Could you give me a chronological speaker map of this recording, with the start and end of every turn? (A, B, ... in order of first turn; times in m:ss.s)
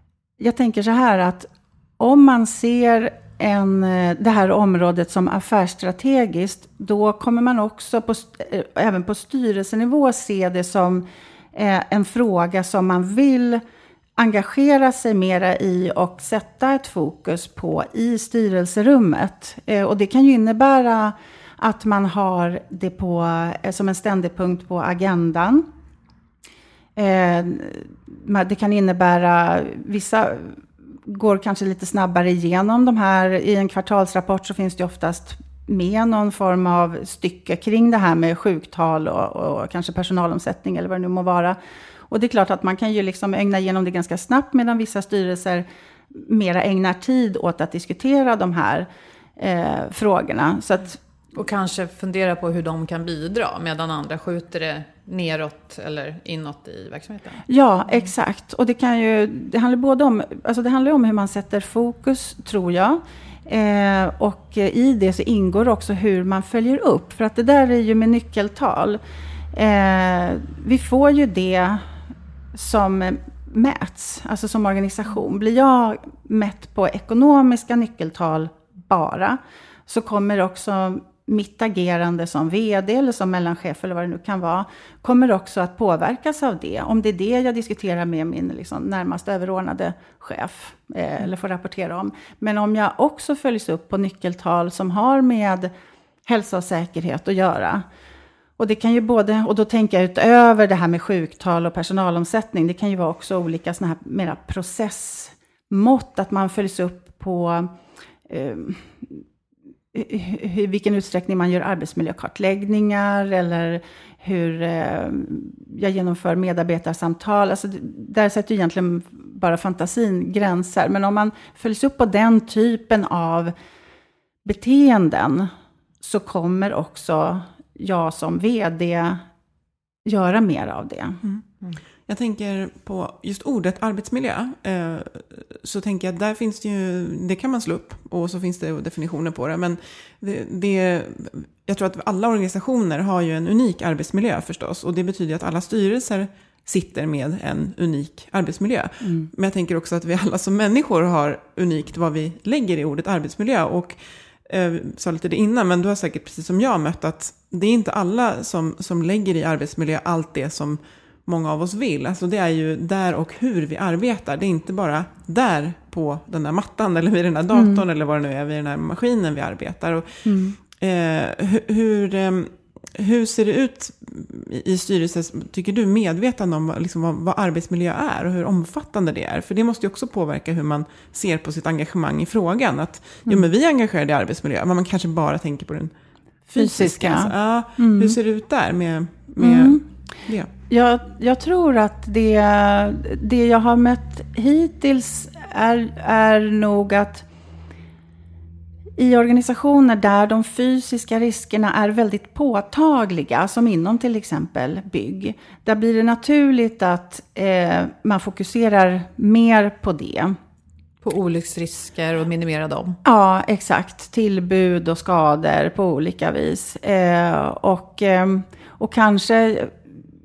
0:00.4-0:13.6 A
0:14.2-0:25.7 A
0:27.0-0:41.6 A
0:42.1-0:51.0 A
0:51.3-0:58.0 B
0:57.5-1:09.0 A
1:09.5-1:11.8 A
1:12.5-1:35.7 A
1:36.2-1:37.8 A
1:38.6-1:47.7 A
1:48.3-1:49.2 A
1:49.9-2:03.5 A
2:04.4-2:09.2 A
2:10.0-2:11.2 A
2:12.1-2:50.2 C
2:47.5-2:47.8 A
2:50.2-2:50.6 A
2:50.7-3:05.9 C
3:06.5-3:10.5 C
3:06.5-3:08.2 A
3:09.4-3:09.8 A
3:10.7-3:17.2 A
3:19.0-3:30.4 A
3:31.0-3:33.0 B
3:33.0-3:39.8 A